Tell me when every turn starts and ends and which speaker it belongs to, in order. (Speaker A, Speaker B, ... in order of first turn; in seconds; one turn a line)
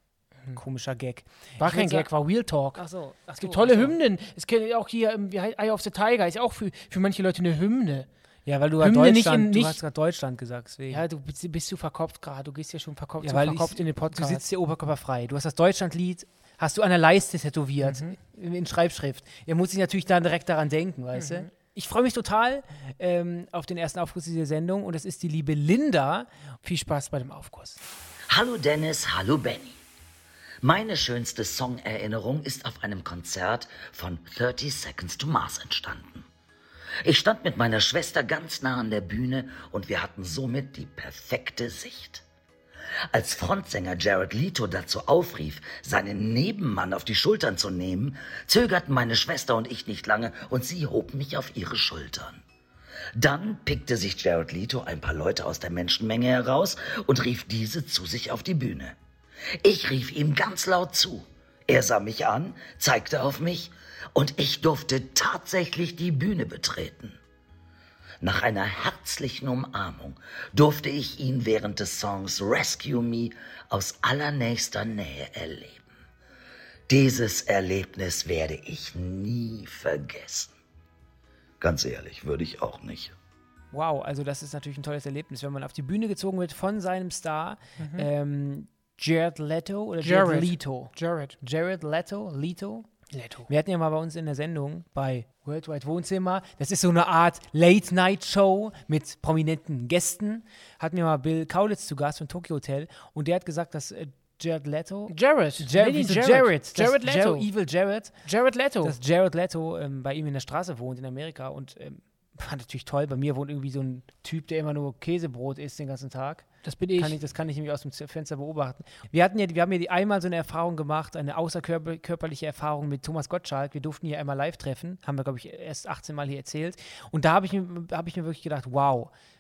Speaker A: 0.5-2.1
Speaker B: 1.6-2.8
Speaker A: 2.8-4.0
Speaker B: 3.4-8.1
Speaker A: 8.5-11.0
Speaker B: 8.8-9.8
Speaker B: 10.9-14.4
Speaker A: 13.2-26.3
Speaker B: 17.8-18.2
Speaker B: 21.1-21.5
Speaker B: 26.6-27.8
Speaker C: 28.3-29.8
Speaker C: 30.6-36.3
Speaker C: 37.0-42.2
Speaker C: 43.1-52.4
Speaker C: 53.2-59.0
Speaker C: 59.6-67.2
Speaker C: 68.2-75.9
Speaker C: 76.9-80.5
Speaker C: 81.6-83.2
Speaker A: 83.7-92.9
Speaker B: 87.8-88.1
Speaker B: 90.0-91.4
Speaker B: 93.1-93.5
Speaker A: 93.5-108.2
Speaker B: 105.1-107.5
Speaker B: 108.2-109.0
Speaker A: 108.8-129.1
Speaker B: 116.7-117.2